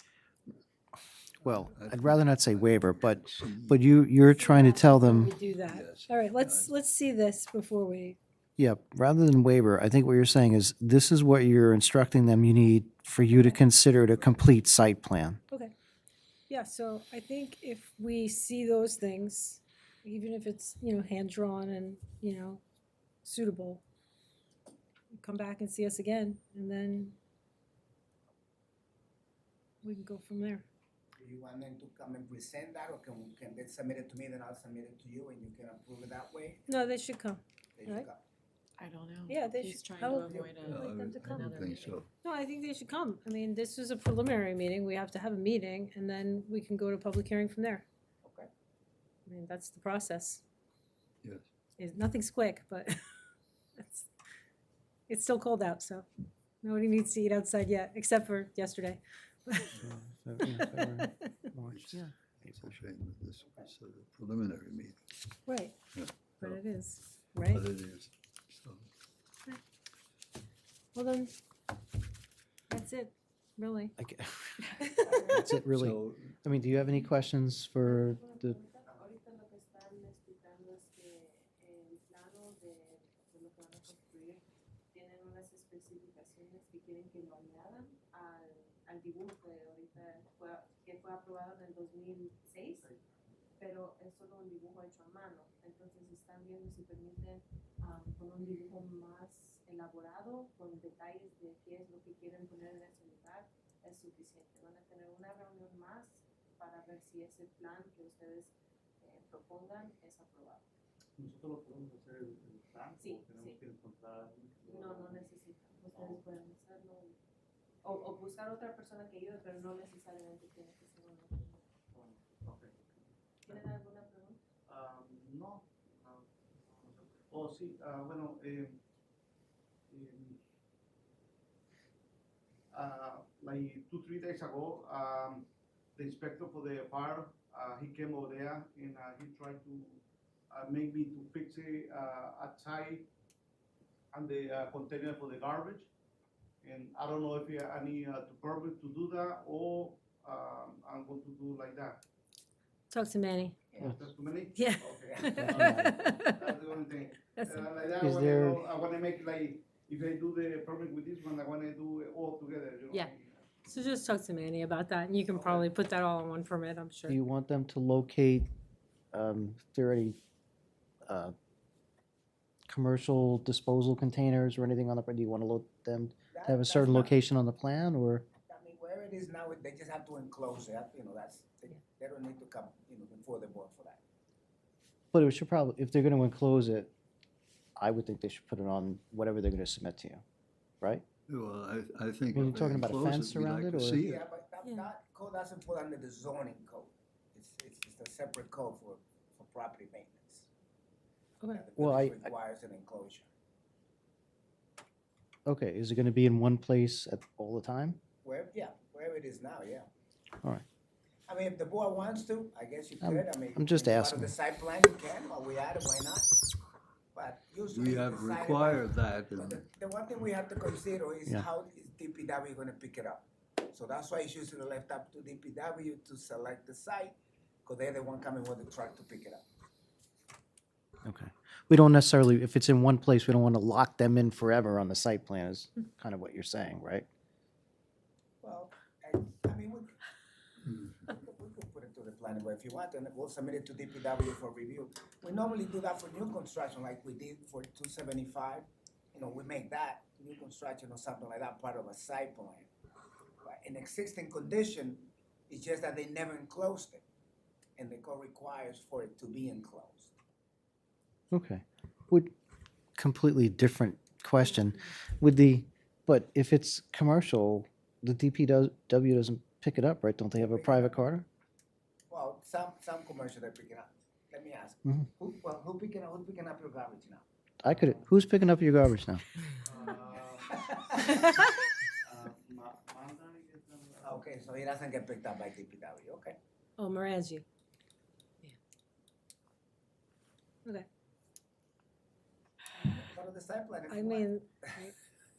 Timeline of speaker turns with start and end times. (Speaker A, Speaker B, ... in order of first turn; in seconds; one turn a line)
Speaker A: 1.4-5.3
Speaker B: 1.4-4.0
Speaker C: 4.3-8.2
Speaker B: 5.5-6.7
Speaker A: 8.6-15.4
Speaker B: 14.1-14.4
Speaker C: 16.5-22.6
Speaker C: 23.2-23.8
Speaker C: 25.1-27.1
Speaker C: 29.8-30.6
Speaker D: 31.2-36.7
Speaker C: 36.7-38.1
Speaker D: 37.8-38.2
Speaker E: 38.8-42.0
Speaker C: 39.3-41.6
Speaker D: 40.0-40.9
Speaker B: 40.6-42.1
Speaker C: 42.2-47.9
Speaker C: 49.3-50.4
Speaker C: 51.8-53.0
Speaker C: 53.8-54.1
Speaker C: 55.1-56.1
Speaker C: 56.6-59.8
Speaker A: 59.8-62.8
Speaker C: 60.5-61.5
Speaker B: 61.7-65.0
Speaker C: 65.5-65.8
Speaker B: 66.0-66.6
Speaker C: 66.4-67.7
Speaker B: 67.4-68.9
Speaker C: 70.9-71.3
Speaker C: 72.7-73.9
Speaker A: 74.0-78.6
Speaker C: 74.8-75.5
Speaker B: 75.7-76.3
Speaker F: 77.8-92.9
Speaker G: 92.8-93.2
Speaker F: 93.6-110.7
Speaker G: 111.2-115.2
Speaker F: 113.0-113.6
Speaker F: 114.6-117.2
Speaker F: 117.8-121.7
Speaker G: 121.9-123.7
Speaker F: 123.5-124.4
Speaker G: 124.7-128.8
Speaker G: 129.9-130.4
Speaker G: 132.7-143.1
Speaker G: 144.1-145.9
Speaker G: 146.6-152.0
Speaker C: 152.9-153.6
Speaker G: 153.8-163.5
Speaker C: 154.6-156.6
Speaker D: 155.2-155.4
Speaker A: 155.4-156.0
Speaker C: 157.3-157.7
Speaker A: 158.0-158.6
Speaker C: 163.7-167.2
Speaker G: 165.3-165.7
Speaker A: 167.1-168.5
Speaker A: 169.1-170.2
Speaker A: 171.1-171.3
Speaker A: 172.7-178.3
Speaker D: 176.3-177.2
Speaker D: 178.4-184.0
Speaker A: 185.1-186.9
Speaker A: 187.8-190.2
Speaker B: 191.3-194.2
Speaker A: 192.3-194.0
Speaker D: 194.0-200.5
Speaker C: 201.4-201.7
Speaker D: 201.5-203.3
Speaker A: 201.8-202.3
Speaker A: 205.5-208.0
Speaker D: 208.2-209.9
Speaker D: 211.3-216.3
Speaker A: 213.0-214.3
Speaker D: 217.1-229.4
Speaker B: 217.7-219.6
Speaker A: 231.0-237.1
Speaker D: 238.4-239.9
Speaker D: 241.0-252.7
Speaker D: 253.4-257.0
Speaker D: 257.8-260.1
Speaker A: 261.3-262.3
Speaker A: 263.0-271.3
Speaker D: 270.4-271.0
Speaker D: 272.1-277.3
Speaker A: 277.6-279.2
Speaker G: 277.7-278.0
Speaker G: 279.6-280.8
Speaker D: 280.5-281.3
Speaker G: 282.0-284.2
Speaker D: 284.0-286.4
Speaker C: 286.8-287.4
Speaker D: 292.8-294.9
Speaker C: 293.9-294.9